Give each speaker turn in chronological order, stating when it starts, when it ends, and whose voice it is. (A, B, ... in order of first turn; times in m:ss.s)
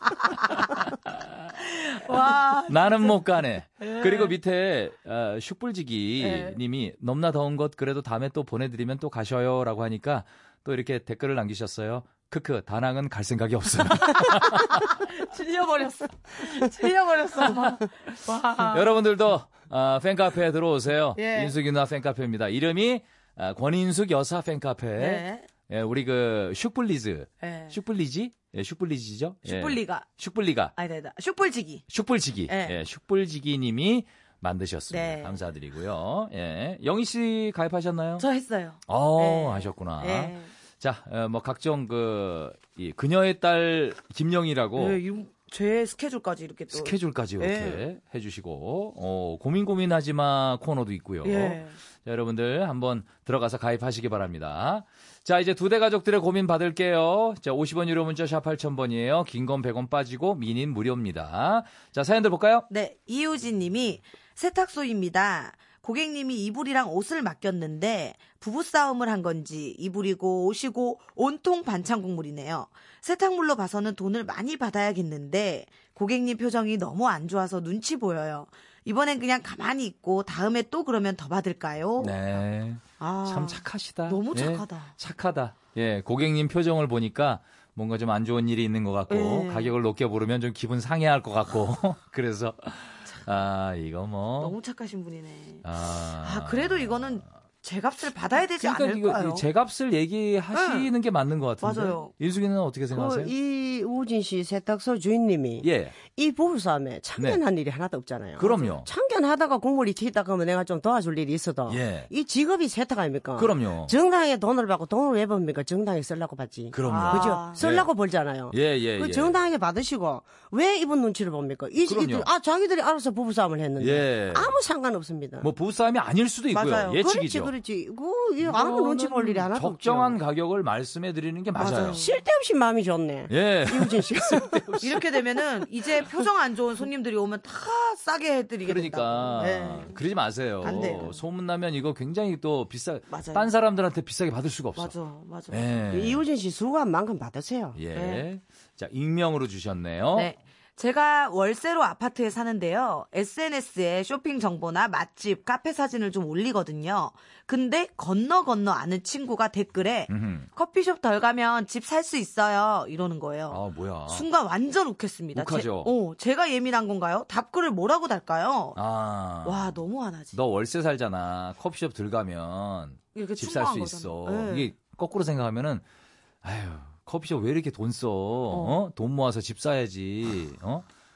0:00.3-0:01.5 A
0:01.6-0:03.3 B
0:02.7-0:15.1 A
0:03.8-0:04.4 B
0:06.2-0:06.6 B
0:14.2-0:18.9 B
0:17.4-0:30.7 A
0:21.2-0:21.5 B
0:25.0-0:25.5 B
0:27.4-0:27.8 B
0:29.4-0:30.1 B
0:30.8-0:31.9 B
0:31.9-0:38.3 A
0:32.5-0:32.8 B
0:34.9-0:35.4 B
0:38.2-0:40.5 B
0:38.9-0:45.0 A
0:44.8-0:47.8 B
0:46.7-1:02.7 A
0:51.2-0:51.8 B
1:02.7-1:22.2 B
1:22.0-1:34.6 A
1:23.0-1:24.9 B
1:29.1-1:29.7 B
1:34.4-1:39.4 B
1:35.6-1:37.2 A
1:38.6-1:43.3 A
1:40.5-1:40.9 B
1:41.6-1:42.1 B
1:42.9-2:05.5 C
1:45.6-1:46.0 A
1:48.4-1:48.9 A
1:51.7-1:52.1 A
1:53.4-1:54.0 A
1:56.7-1:57.9 A
1:56.8-1:57.6 B
1:58.5-1:59.4 A
2:01.8-2:02.3 A
2:03.8-2:04.6 A
2:05.4-2:07.5 A
2:06.5-2:07.0 B
2:07.0-2:10.2 C
2:08.4-2:08.9 A
2:08.6-2:09.4 B
2:09.5-2:12.0 A
2:11.6-2:12.2 B
2:12.0-2:14.8 C
2:13.3-2:15.0 A
2:14.8-2:20.0 B
2:18.6-2:24.9 A
2:20.6-2:21.2 B
2:23.1-2:23.5 B
2:24.8-2:25.6 B
2:25.5-2:26.2 A
2:25.9-2:27.8 C
2:27.8-2:30.3 A
2:27.9-2:28.2 B
2:30.2-2:48.8 B
2:40.1-2:40.5 A
2:43.5-2:44.3 A
2:45.3-2:45.9 A
2:48.8-2:49.8 A
2:49.4-2:50.4 B
2:50.3-2:55.8 A
2:53.2-2:54.7 B
2:56.4-3:00.9 A
2:58.5-2:58.8 B